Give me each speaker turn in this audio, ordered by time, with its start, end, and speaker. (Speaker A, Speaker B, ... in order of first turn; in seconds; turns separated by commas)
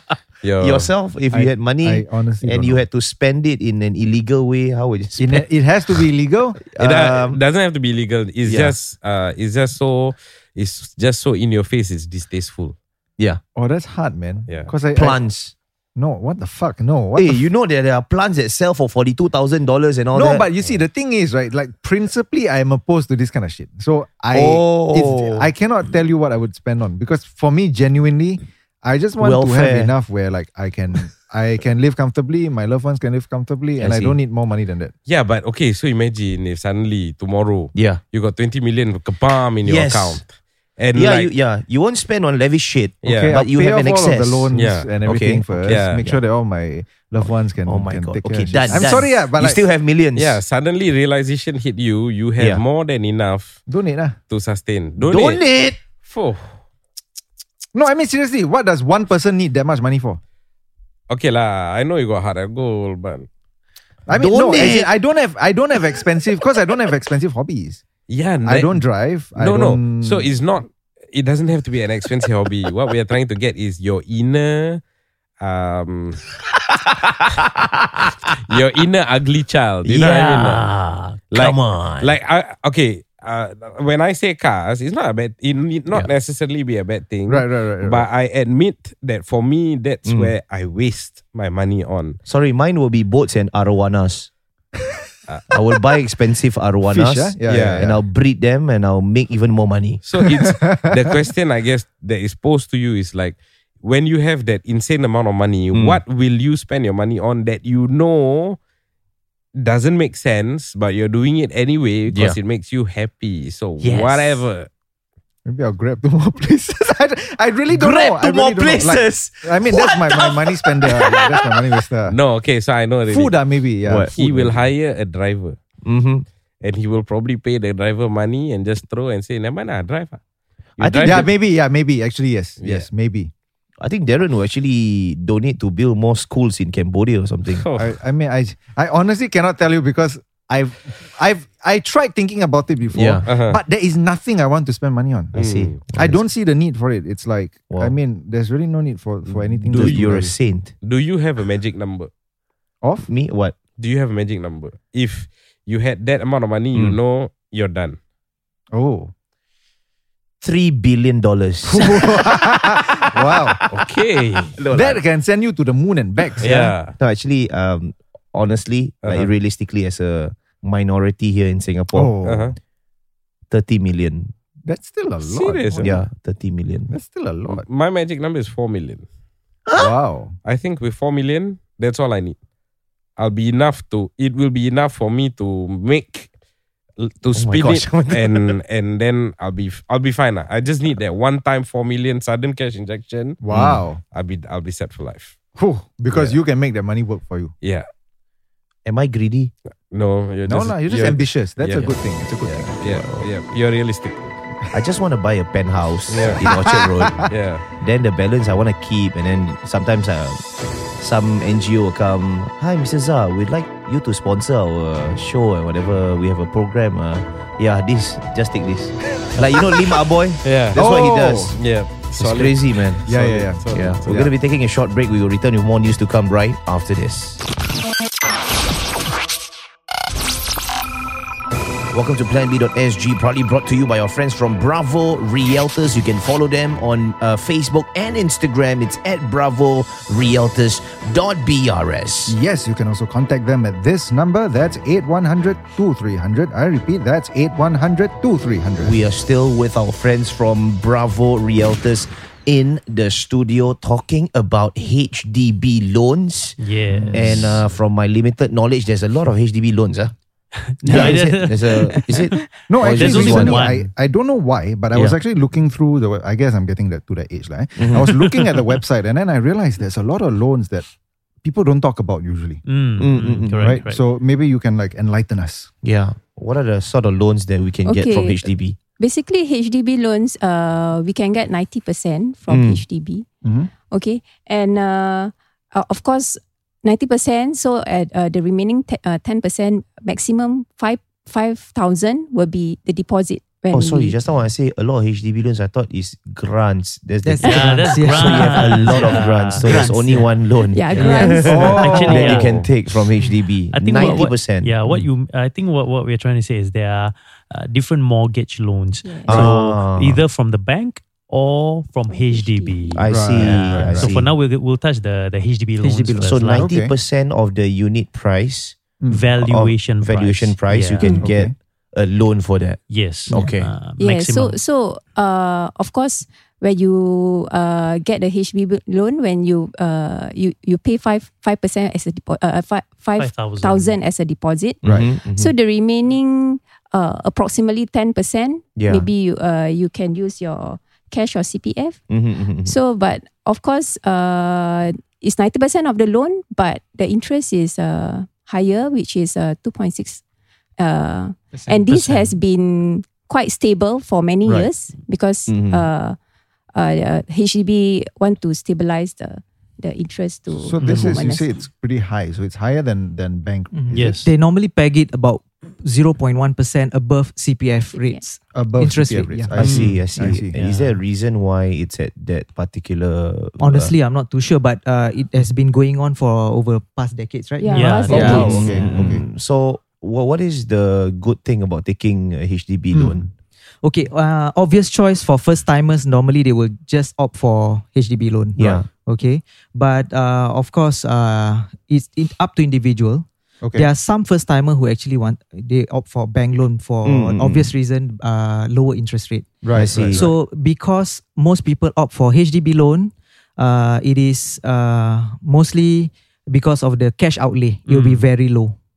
Speaker A: 0.4-0.9, Speaker B: 0.6-6.0, Speaker C: 1.3-2.8, Speaker C: 5.2-6.6, Speaker B: 6.6-7.4, Speaker A: 6.8-12.8, Speaker B: 8.5-8.8, Speaker C: 13.6-15.2, Speaker A: 14.5-14.7, Speaker B: 14.9-15.5, Speaker C: 16.0-17.4, Speaker B: 17.2-20.5, Speaker C: 20.1-34.9, Speaker B: 24.3-25.5, Speaker B: 29.2-29.9, Speaker B: 33.8-34.2, Speaker A: 35.1-41.3, Speaker B: 37.8-38.0, Speaker B: 39.6-40.2, Speaker B: 40.9-44.5, Speaker A: 43.0-43.4, Speaker C: 43.1-49.6, Speaker A: 44.5-45.0, Speaker B: 45.0-46.2, Speaker A: 45.6-46.1, Speaker B: 47.2-50.4, Speaker A: 48.7-49.0, Speaker A: 50.2-53.6, Speaker B: 52.4-52.6, Speaker C: 53.7-54.2, Speaker A: 54.3-55.4, Speaker B: 55.0-55.8, Speaker A: 56.0-56.6, Speaker C: 57.7-60.2, Speaker A: 61.1-63.3, Speaker C: 64.1-67.8, Speaker B: 64.1-64.9, Speaker A: 68.1-68.8, Speaker C: 68.5-70.3, Speaker A: 69.4-74.8, Speaker A: 75.4-76.2, Speaker B: 76.7-78.1, Speaker A: 78.4-80.6, Speaker B: 79.8-82.2, Speaker A: 81.3-92.2, Speaker C: 87.3-88.1, Speaker B: 90.1-90.3, Speaker B: 92.3-94.3, Speaker B: 95.5-100.0, Speaker C: 96.8-98.0, Speaker A: 97.5-97.9, Speaker A: 100.0-108.6, Speaker C: 100.2-101.0, Speaker B: 105.7-106.0, Speaker A: 109.6-114.7, Speaker B: 112.1-112.4, Speaker D: 113.8-114.4, Speaker C: 115.5-122.2, Speaker B: 117.7-121.6, Speaker A: 122.1-123.4, Speaker C: 123.1-124.6, Speaker B: 123.8-124.2, Speaker A: 124.2-125.6, Speaker B: 125.8-126.3, Speaker A: 126.6-130.2, Speaker A: 130.8-131.3, Speaker B: 130.8-131.3, Speaker C: 131.1-133.3, Speaker A: 132.6-132.9, Speaker B: 133.8-137.7, Speaker A: 137.5-138.0, Speaker C: 137.8-150.3, Speaker B: 142.9-143.2, Speaker A: 143.3-143.6, Speaker B: 145.3-146.2, Speaker A: 145.3-145.8, Speaker B: 149.3-150.7, Speaker A: 149.7-150.3, Speaker A: 150.8-152.1, Speaker C: 152.8-153.1, Speaker B: 153.1-153.6, Speaker A: 153.8-158.0, Speaker C: 158.7-159.1, Speaker B: 160.4-163.8, Speaker C: 161.7-163.6, Speaker A: 163.7-164.6, Speaker B: 164.5-165.0, Speaker C: 164.7-166.7, Speaker A: 166.4-166.9, Speaker B: 167.0-172.2, Speaker A: 169.0-169.3, Speaker C: 171.9-172.6, Speaker A: 172.2-172.6, Speaker B: 173.5-174.3, Speaker C: 174.7-176.0, Speaker A: 175.2-175.9, Speaker B: 175.8-176.9, Speaker C: 176.9-177.6, Speaker A: 177.5-179.1, Speaker B: 179.7-179.9, Speaker C: 179.8-180.3, Speaker A: 180.4-182.4, Speaker A: 183.2-186.3, Speaker A: 187.0-193.4, Speaker B: 187.3-188.6, Speaker C: 193.4-194.0, Speaker B: 193.5-193.8, Speaker A: 194.1-195.4, Speaker C: 195.6-197.5, Speaker A: 196.1-196.4, Speaker A: 197.6-197.9, Speaker B: 198.9-199.5, Speaker A: 199.9-204.4, Speaker C: 200.5-203.2, Speaker B: 204.7-207.3, Speaker A: 206.1-206.4, Speaker C: 206.2-207.3, Speaker A: 207.3-207.6, Speaker B: 207.8-210.4, Speaker B: 211.0-221.6, Speaker A: 220.4-220.8, Speaker C: 220.8-221.6, Speaker A: 221.6-224.3, Speaker B: 222.2-223.1, Speaker C: 223.1-224.3, Speaker B: 223.7-227.4, Speaker B: 231.9-242.4, Speaker C: 242.3-249.0, Speaker B: 248.8-256.6, Speaker D: 256.6-257.6, Speaker C: 256.9-257.4, Speaker B: 257.1-260.1, Speaker D: 260.7-263.9, Speaker B: 260.8-263.8, Speaker C: 262.7-270.9, Speaker B: 267.8-268.1, Speaker D: 268.1-268.6, Speaker C: 271.4-272.6, Speaker D: 272.6-274.1, Speaker B: 273.0-273.6, Speaker C: 273.5-275.7, Speaker B: 275.8-278.8, Speaker E: 277.9-278.5, Speaker E: 279.0-283.3, Speaker B: 282.5-282.8, Speaker C: 283.4-283.7, Speaker E: 283.9-294.2, Speaker B: 293.7-304.8, Speaker F: 297.2-300.2, Speaker D: 297.4-300.3, Speaker E: 300.7-302.0, Speaker D: 300.9-302.6, Speaker C: 301.5-302.4, Speaker A: 302.3-302.7, Speaker D: 303.7-316.7, Speaker E: 309.0-309.4, Speaker C: 309.3-309.6, Speaker B: 309.3-310.2, Speaker E: 312.1-313.0, Speaker B: 312.9-314.3, Speaker C: 313.1-314.1, Speaker F: 315.8-316.7, Speaker B: 316.2-318.8, Speaker C: 316.6-316.9, Speaker C: 319.0-319.3, Speaker D: 319.1-321.2, Speaker B: 319.4-323.7, Speaker C: 321.2-321.5, Speaker D: 322.9-324.6, Speaker E: 324.0-342.0, Speaker D: 333.2-334.0, Speaker B: 334.8-335.5, Speaker B: 338.8-339.1, Speaker B: 342.1-342.7, Speaker E: 342.6-350.2, Speaker E: 350.8-356.2, Speaker D: 351.9-352.3, Speaker B: 355.5-355.9, Speaker E: 356.7-361.5, Speaker C: 360.5-364.2, Speaker D: 360.8-361.2, Speaker F: 363.7-369.8, Speaker D: 363.9-364.3, Speaker E: 367.9-368.2, Speaker C: 368.5-370.6, Speaker B: 369.6-373.9, Speaker D: 370.5-371.0, Speaker F: 373.6-378.9, Speaker E: 377.6-378.6, Speaker D: 377.7-379.1, Speaker C: 378.1-379.2, Speaker B: 378.3-383.3, Speaker C: 382.9-383.3, Speaker F: 383.8-408.8, Speaker B: 388.6-388.9, Speaker C: 393.6-393.9, Speaker B: 397.0-397.7, Speaker C: 399.6-400.3, Speaker B: 399.7-400.3, Speaker D: 407.9-408.3